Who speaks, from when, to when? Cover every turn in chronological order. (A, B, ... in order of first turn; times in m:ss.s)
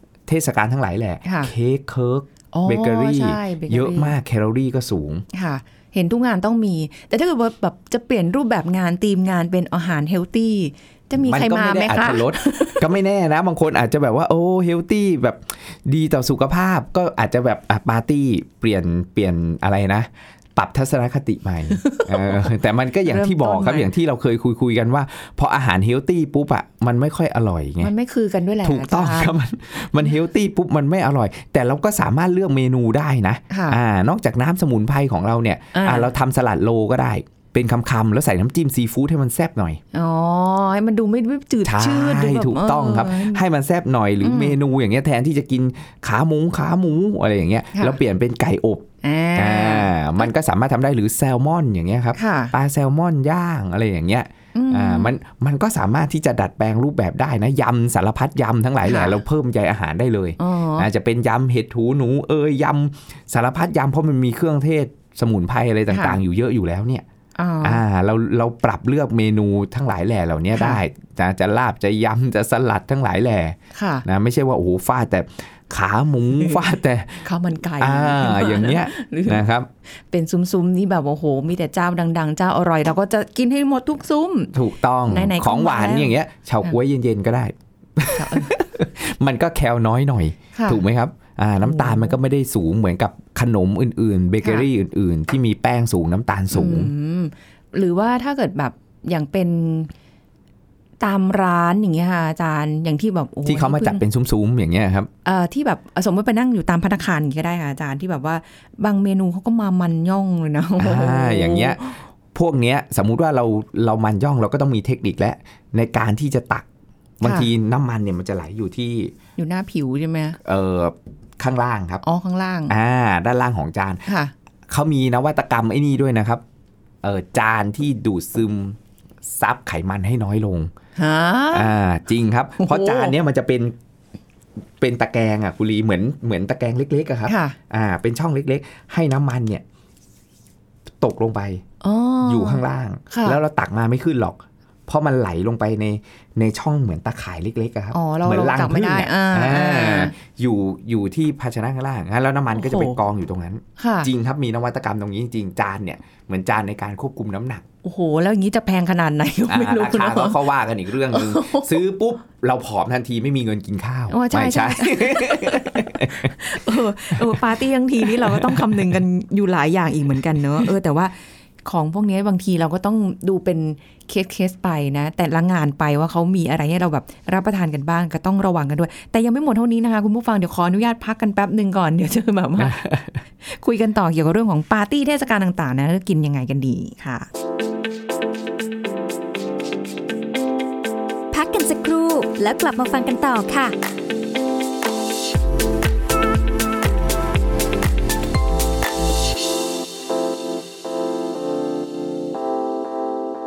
0:00.3-0:05.2 A
0:01.2-0:01.5 B
0:02.5-0:04.1 B
0:05.3-0:12.9 B
0:11.2-0:27.9 A
0:21.8-0:22.5 B
0:23.0-0:23.9 B
0:27.8-0:29.3 B
0:28.6-0:39.8 A
0:33.5-0:33.8 B
0:35.7-0:36.1 B
0:39.9-0:43.4 B
0:41.6-1:07.0 A
0:44.2-0:44.6 B
0:49.0-0:50.3 B
0:52.2-0:52.5 B
0:54.5-0:55.1 B
0:58.8-0:59.2 B
1:00.4-1:00.9 B
1:05.9-1:06.2 B
1:07.4-1:07.8 B
1:07.6-1:17.2 A
1:13.7-1:14.0 B
1:17.2-1:19.4 B
1:17.8-1:19.7 A
1:20.1-1:24.5 B
1:24.5-1:36.9 A
1:25.1-1:26.1 B
1:28.1-1:28.5 B
1:30.5-1:30.8 B
1:31.6-1:32.1 B
1:34.4-1:34.7 B
1:36.5-1:39.9 B
1:41.0-1:44.0 B
1:43.4-1:45.1 A
1:45.2-1:52.0 B
1:50.8-1:56.6 A
1:57.2-1:59.1 A
1:57.2-1:57.5 B
1:59.4-2:00.4 B
2:00.4-2:02.0 A
2:02.0-2:02.7 B
2:02.7-2:04.0 A
2:04.0-2:04.3 B
2:04.7-2:06.4 A
2:07.0-2:10.7 A
2:11.0-2:11.7 B
2:11.5-2:13.7 A
2:12.6-2:13.1 B
2:14.8-2:19.6 A
2:17.3-2:17.6 B
2:21.0-2:21.6 A
2:21.8-2:23.4 B
2:22.2-2:37.6 A
2:27.9-2:30.1 B
2:32.6-2:33.0 B
2:33.8-2:34.1 B
2:37.8-2:40.4 B
2:39.5-2:46.3 A
2:41.1-2:41.8 B
2:44.1-2:51.1 B
2:47.1-2:47.4 A
2:48.0-2:48.9 A
2:51.6-3:07.3 B
3:02.6-3:03.1 A
3:11.3-3:13.7 C